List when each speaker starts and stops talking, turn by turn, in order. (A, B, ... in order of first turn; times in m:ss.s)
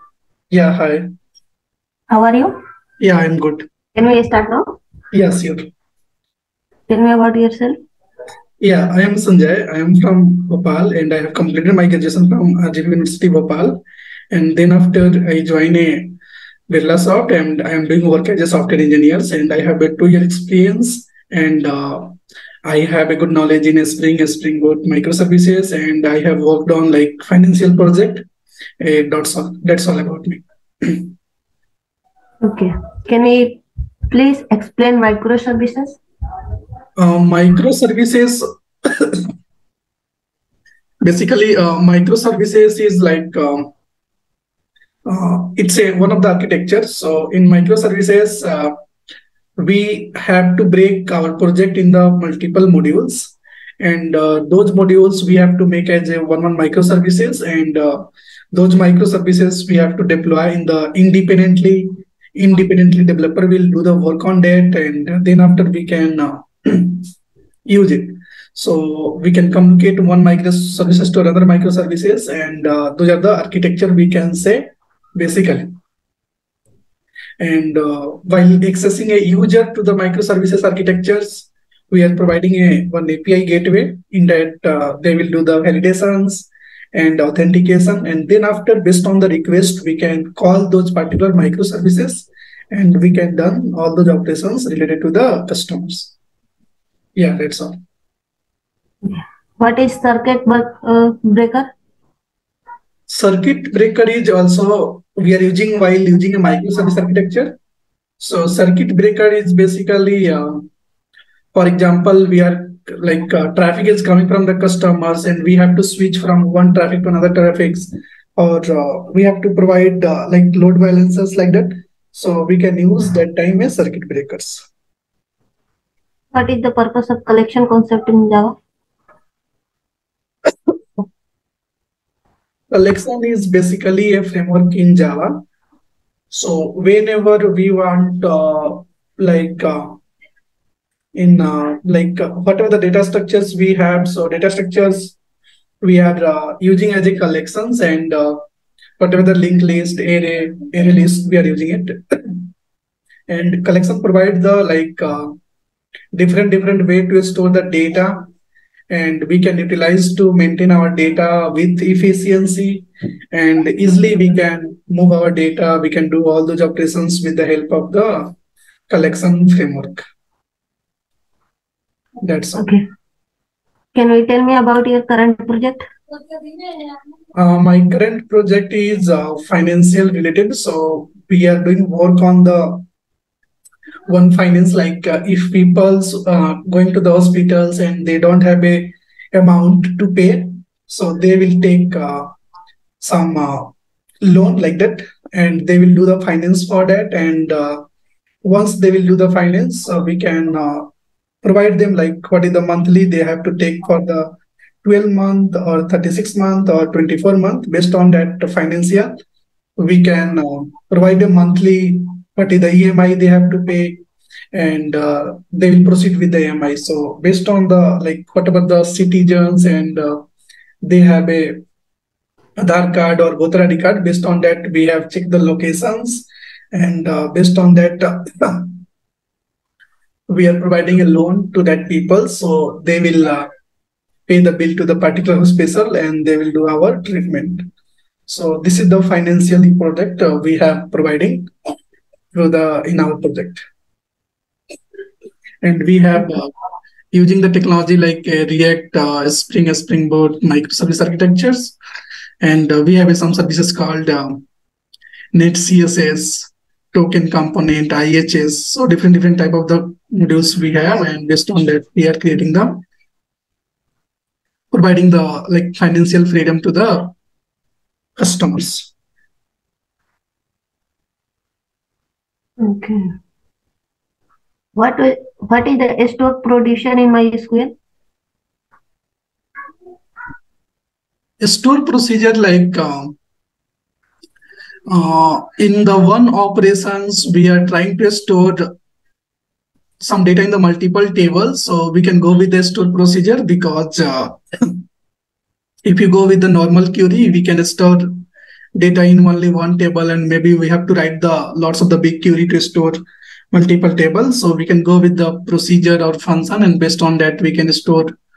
0:00.5-0:01.0 A
0:02.1-0:02.5 B
0:03.0-0:03.7 A
0:04.0-0:04.7 B
0:05.1-0:05.6 A
0:06.9-0:07.8 B
0:08.6-0:16.2 A
0:16.7-0:28.3 A
0:28.8-0:31.1 A
0:32.4-0:36.0 B
0:37.0-0:39.3 A
0:41.0-0:43.7 A
0:45.1-0:48.7 A
0:49.6-1:07.1 A
1:07.7-1:15.8 A
1:17.4-1:36.1 A
1:37.2-1:37.8 A
1:39.0-1:41.7 B
1:43.1-1:47.6 A
1:48.2-1:50.7 A
1:51.5-2:04.7 A
2:06.3-2:08.6 B
2:12.7-2:15.4 A
2:16.3-2:20.0 A
2:21.2-2:25.2 A
2:25.8-2:28.4 A
2:29.0-2:32.5 A
2:33.3-2:35.4 A
2:36.1-2:38.3 A
2:38.9-2:48.3 A
2:48.9-2:50.0 A
2:52.2-2:52.7 A
2:52.6-2:52.8 B
2:53.9-2:55.8 B
2:57.4-3:02.8 A
3:04.1-3:12.3 A
3:13.0-3:13.7 A
3:14.2-3:17.8 A
3:18.4-3:20.9 A
3:21.4-3:29.1 A
3:29.8-3:40.2 A
3:40.8-3:41.6 A
3:42.6-3:48.8 A
3:50.3-3:53.5 A
3:54.3-3:57.7 A
3:58.3-4:01.5 A
4:02.3-4:03.6 A
4:05.6-4:06.5 A
4:07.1-4:11.8 A
4:12.4-4:14.4 A
4:15.3-4:22.8 A
4:24.7-4:27.1 A
4:28.2-4:28.9 A
4:32.6-4:33.2 B
4:34.8-4:37.7 B
4:41.4-4:43.2 A
4:44.9-4:48.7 A
4:50.0-4:54.8 A
4:55.8-4:58.2 A
4:58.8-5:03.0 A
5:03.5-5:08.1 A